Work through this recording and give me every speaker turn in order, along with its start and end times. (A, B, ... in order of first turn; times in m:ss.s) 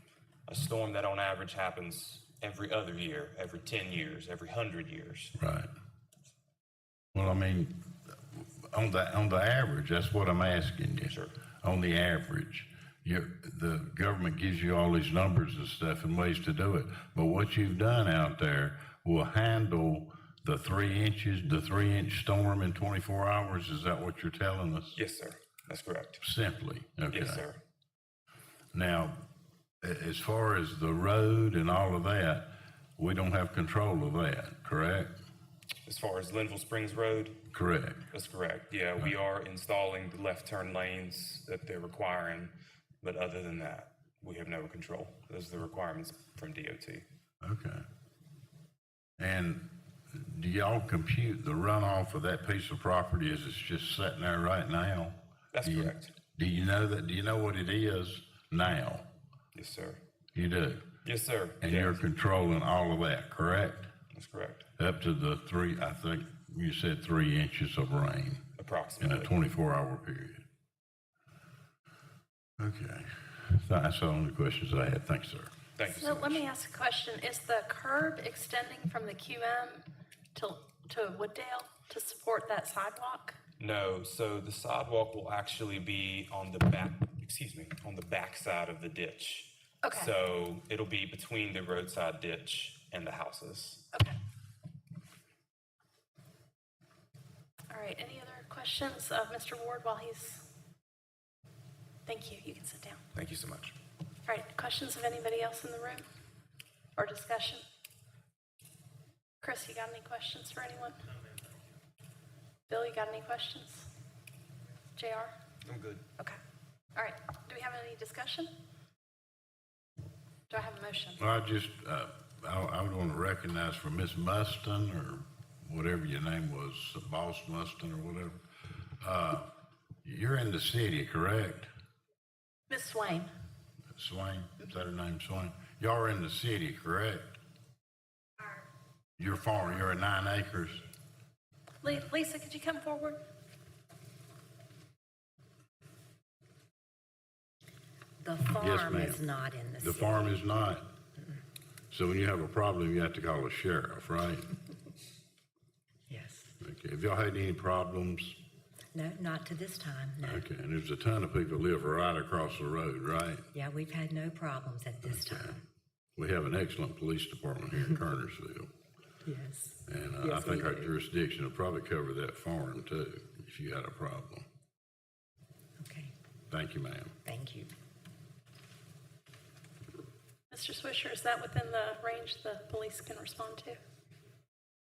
0:00.5-0:05.3 A
0:05.4-0:05.7 B
0:07.1-0:07.7 B
0:08.3-0:25.0 B
0:11.1-0:11.3 A
0:25.0-0:26.2 A
0:26.2-0:27.4 B
0:27.1-0:27.6 A
0:28.7-0:29.2 B
0:29.8-0:32.4 B
0:33.0-0:35.1 B
0:35.8-0:37.4 A
0:37.5-0:38.0 B
0:38.1-0:47.0 A
0:47.4-0:47.8 B
0:49.2-0:59.0 B
0:55.5-0:56.1 A
0:59.5-1:00.0 A
1:00.3-1:00.8 B
1:01.0-1:02.0 A
1:01.6-1:03.8 B
1:04.1-1:04.6 A
1:04.8-1:08.4 B
1:08.6-1:09.3 A
1:09.0-1:10.4 B
1:12.6-1:15.5 B
1:15.8-1:16.4 A
1:15.9-1:23.4 C
1:23.6-1:33.8 A
1:29.8-1:30.1 C
1:37.7-1:40.5 C
1:42.0-1:43.0 C
1:43.1-1:43.7 A
1:44.2-1:46.0 C
1:47.0-1:47.6 C
1:49.4-1:51.0 C
1:52.7-1:53.9 C
1:55.0-1:55.3 C
1:55.6-1:56.0 A
1:56.9-1:58.5 C
2:00.5-2:01.2 C
2:01.2-2:08.4 B
2:09.0-2:09.5 B
2:10.0-2:11.7 B
2:12.7-2:13.3 C
2:14.0-2:17.3 B
2:19.2-2:20.8 B
2:21.8-2:23.2 C
2:28.2-2:30.4 D
2:28.6-2:29.2 B
2:29.8-2:30.8 B
2:31.9-2:34.5 B
2:36.1-2:36.5 D
2:36.6-2:38.4 B
2:38.9-2:40.4 D
2:40.2-2:43.4 B
2:43.5-2:45.6 D
2:45.0-2:45.6 B
2:46.2-2:48.7 B
2:49.2-2:50.9 D
2:49.9-2:54.4 B
2:55.8-2:56.1 D
2:56.5-2:57.1 B
2:57.2-2:57.7 D
3:00.5-3:03.8 C